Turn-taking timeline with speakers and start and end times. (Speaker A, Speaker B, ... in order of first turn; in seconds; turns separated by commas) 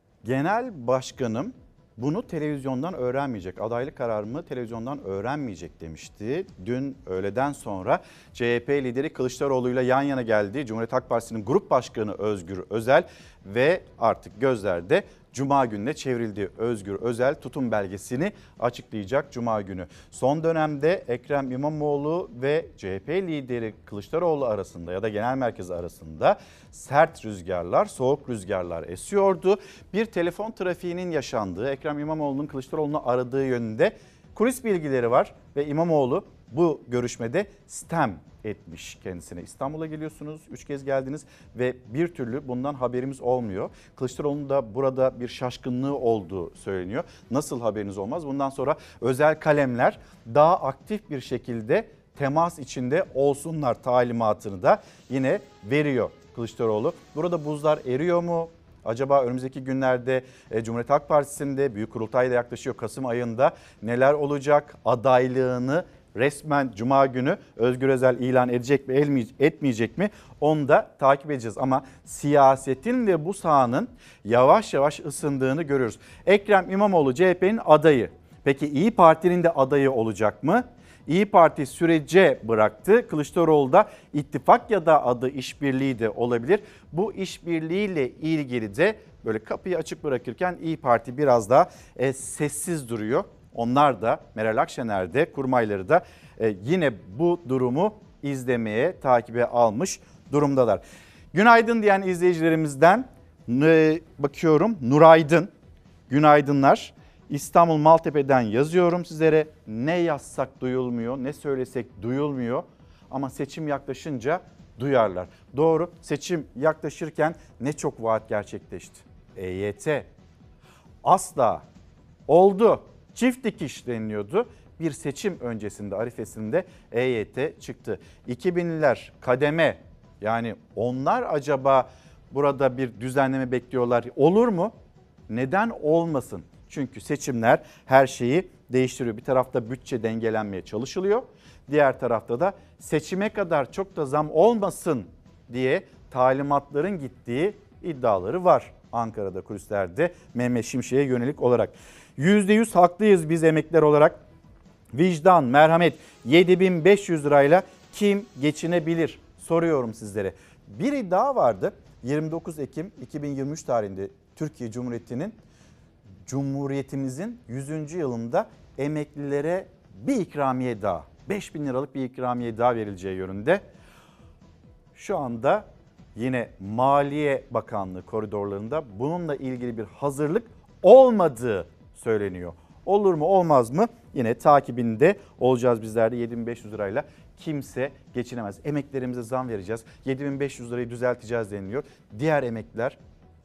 Speaker A: 0.2-100.8, Speaker A: 101.3-105.5, Speaker A: 106.1-120.1, Speaker A: 121.0-121.6, Speaker A: 122.3-134.7, Speaker A: 135.3-154.2, Speaker A: 154.9-165.4, Speaker A: 166.2-173.6, Speaker A: 174.9-193.0